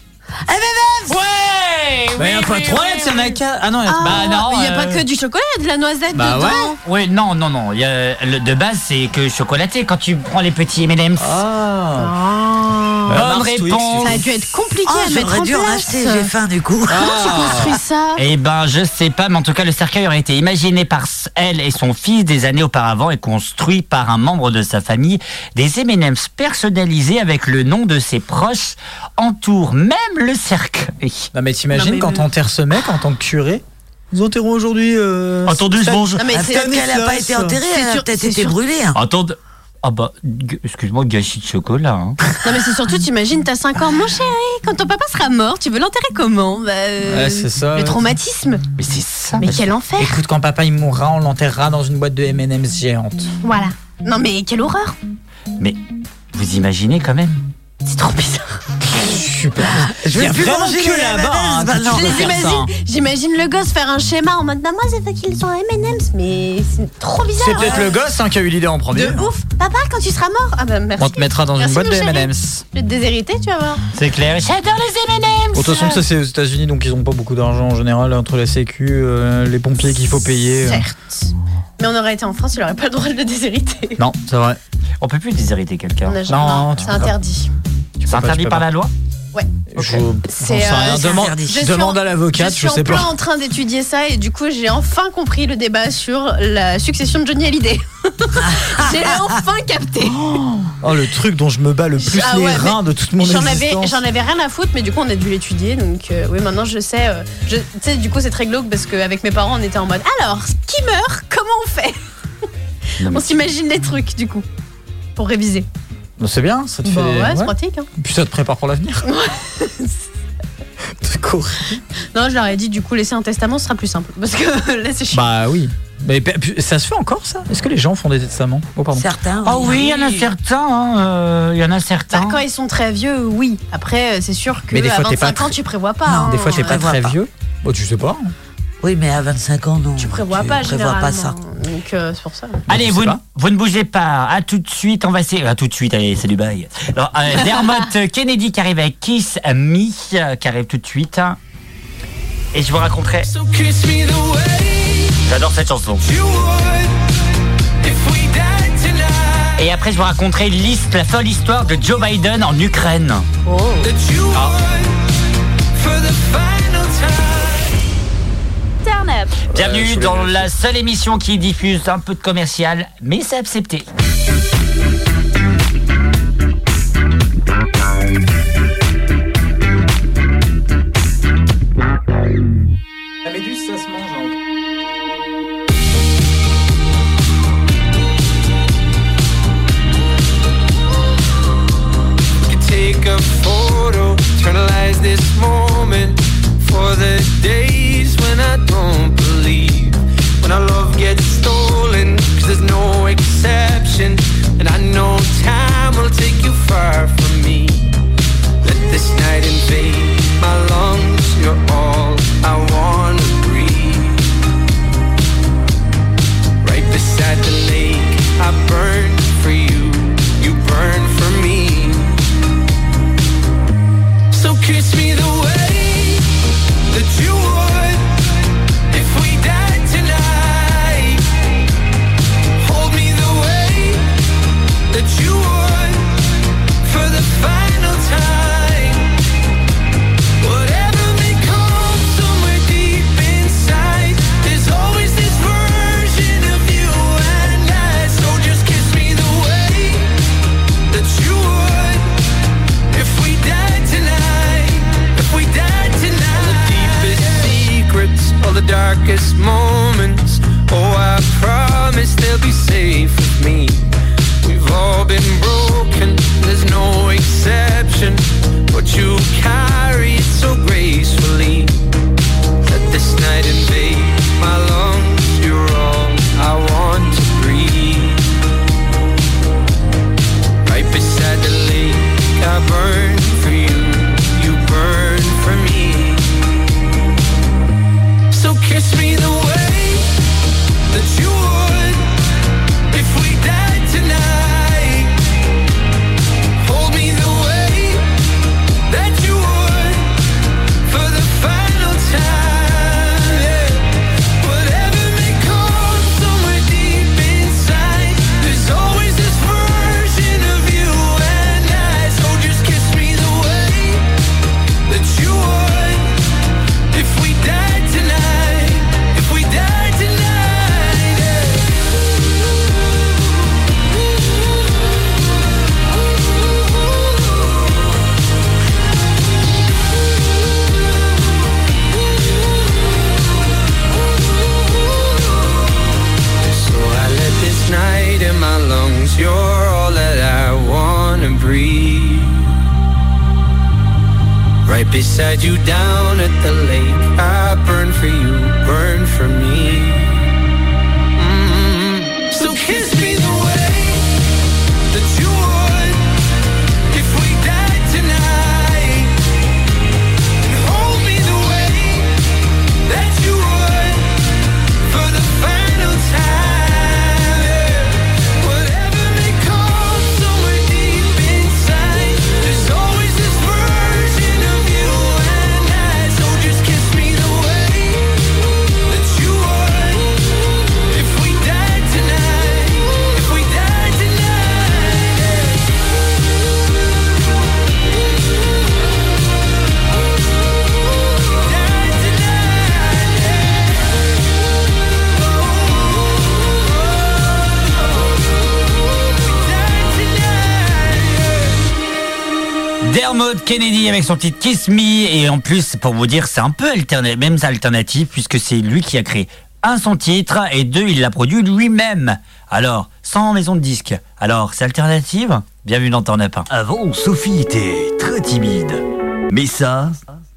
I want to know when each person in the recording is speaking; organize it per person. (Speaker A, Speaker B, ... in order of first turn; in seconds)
Speaker A: 0.5-1.1, 14.9-17.3, 36.3-39.0, 59.9-62.4, 90.7-91.6, 98.4-99.3, 128.9-129.9, 136.1-137.2, 138.8-141.4
Speaker B: 1.1-3.4, 4.0-5.0, 6.8-11.4, 13.1-14.2, 18.2-31.3, 35.5-36.2, 39.0-42.2, 48.8-49.7, 56.3-57.4, 74.0-75.9, 85.0-86.3, 88.1-88.9, 113.0-113.5, 129.4-132.4, 142.7-151.4, 152.5-153.3, 155.2-156.0, 159.6-163.3, 169.5-173.9, 402.8-420.0
Speaker C: 2.2-4.5, 6.1-6.8, 11.2-12.1, 13.1-14.3, 16.9-17.8, 31.3-37.6, 47.1-48.0, 50.0-53.3, 58.9-62.7, 67.4-69.3, 71.0-72.6, 75.5-80.8, 84.2-84.6, 86.3-87.1, 88.0-88.7, 89.7-93.1, 100.0-104.0, 116.2-119.1, 121.0-121.8, 125.1-129.1, 134.7-135.6, 136.2-138.3, 142.7-143.2, 169.5-170.5, 183.2-184.4
Speaker D: 3.9-6.8, 12.0-13.2, 14.0-16.3, 17.0-18.2, 31.7-32.2, 36.2-36.8, 37.7-38.6, 42.4-48.6, 49.4-50.2, 53.4-55.0, 57.9-58.5, 61.9-68.0, 68.9-73.8, 75.7-76.0, 80.5-84.0, 86.0-87.5, 89.3-89.7, 90.2-100.3, 102.0-112.0, 113.0-114.5, 115.2-115.7, 116.8-117.9, 119.0-120.0, 122.1-125.3, 132.1-136.8, 140.0-142.6, 163.5-163.9, 168.8-169.4
Speaker E: 153.3-155.2, 156.0-159.7, 163.8-165.1, 165.7-167.8, 192.5-207.9, 208.6-214.4, 216.6-222.2, 224.3-231.4, 232.6-234.1, 234.9-239.2, 240.4-250.2, 250.9-252.1, 252.9-263.9, 264.4-271.8, 272.6-278.3, 280.6-286.4, 288.3-290.1, 290.9-292.2, 292.9-295.2, 296.6-298.0, 298.9-300.2, 300.8-314.1, 314.9-316.2, 316.9-321.7, 336.5-342.6, 344.6-350.3, 351.2-354.2, 354.9-356.1, 356.9-359.2, 360.4-362.2, 362.9-378.2, 378.9-380.3, 380.9-385.7, 391.3-393.8, 395.3-397.9, 399.1-401.6